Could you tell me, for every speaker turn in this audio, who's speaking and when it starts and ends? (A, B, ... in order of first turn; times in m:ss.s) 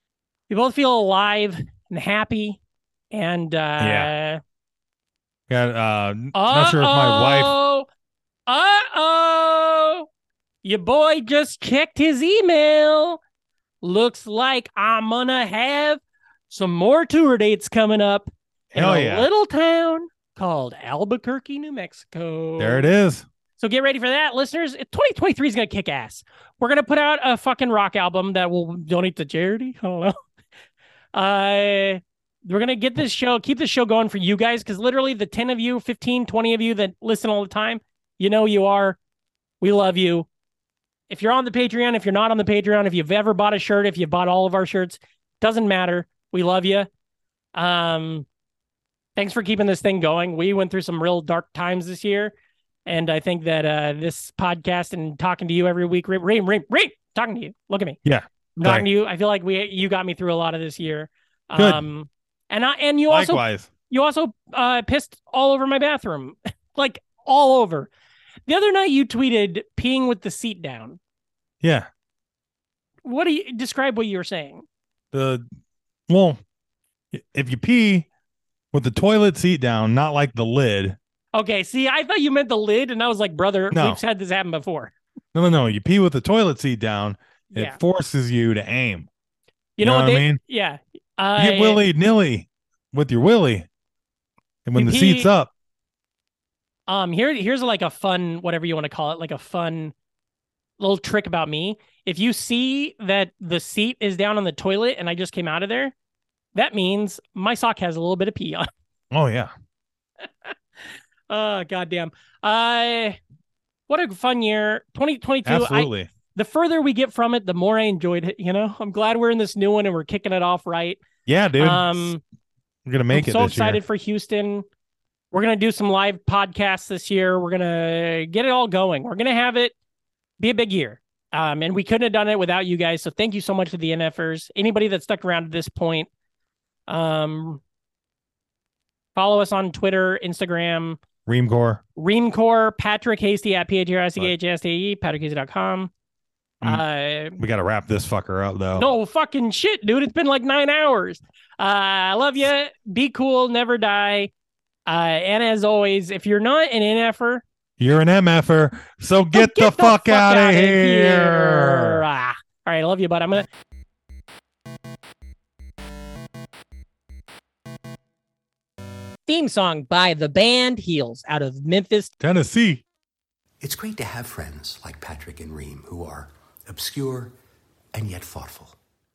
0:00.5-0:02.6 A
0:03.1-0:04.4 A
0:03.8-0:04.1 B
0:05.5-0:07.6 B
0:06.3-0:07.9 A
0:08.5-0:10.1 A
0:10.6-0:13.2 A
0:13.8-0:22.9 A
0:18.7-0:19.3 B
0:22.6-0:23.3 B
0:23.6-0:30.2 A
0:31.1-0:39.0 A
0:39.6-0:40.3 A
0:41.1-0:46.9 A
0:47.6-0:48.3 A
0:49.2-0:52.3 A
0:52.9-0:58.0 A
0:58.0-0:58.9 B
0:58.6-1:07.9 A
1:01.6-1:01.8 B
1:03.1-1:03.7 B
1:08.5-1:11.0 A
1:11.6-1:11.9 B
1:13.0-1:14.6 A
1:15.1-1:15.5 B
1:16.1-1:16.4 B
1:17.1-1:18.1 B
1:18.7-1:21.0 B
1:21.3-1:24.9 A
1:23.7-1:24.0 B
1:25.3-1:29.1 B
1:27.5-1:27.8 A
1:29.8-1:31.8 A
1:29.8-1:30.4 B
1:31.4-1:33.7 B
1:34.7-1:35.5 B
1:34.8-1:35.3 A
1:36.9-1:39.9 A
1:40.8-1:45.9 A
1:46.6-1:48.7 A
1:49.1-1:49.5 B
1:51.3-1:53.2 A
1:53.9-2:01.0 A
1:55.4-1:56.1 B
2:01.3-2:02.1 B
2:01.6-2:02.2 A
2:02.9-2:03.8 B
2:03.1-2:04.7 A
2:05.3-2:09.7 A
2:10.4-2:16.1 A
2:16.9-2:17.6 A
2:19.2-2:21.0 A
2:21.3-2:21.8 B
2:22.0-2:25.9 A
2:26.6-2:27.4 A
2:27.4-2:28.9 B
2:28.7-2:34.3 A
2:34.9-2:37.4 A
2:37.8-2:42.0 B
2:39.3-2:43.5 A
2:49.3-2:52.1 A
2:52.2-2:52.8 B
2:53.6-2:57.3 C
2:57.9-2:58.8 C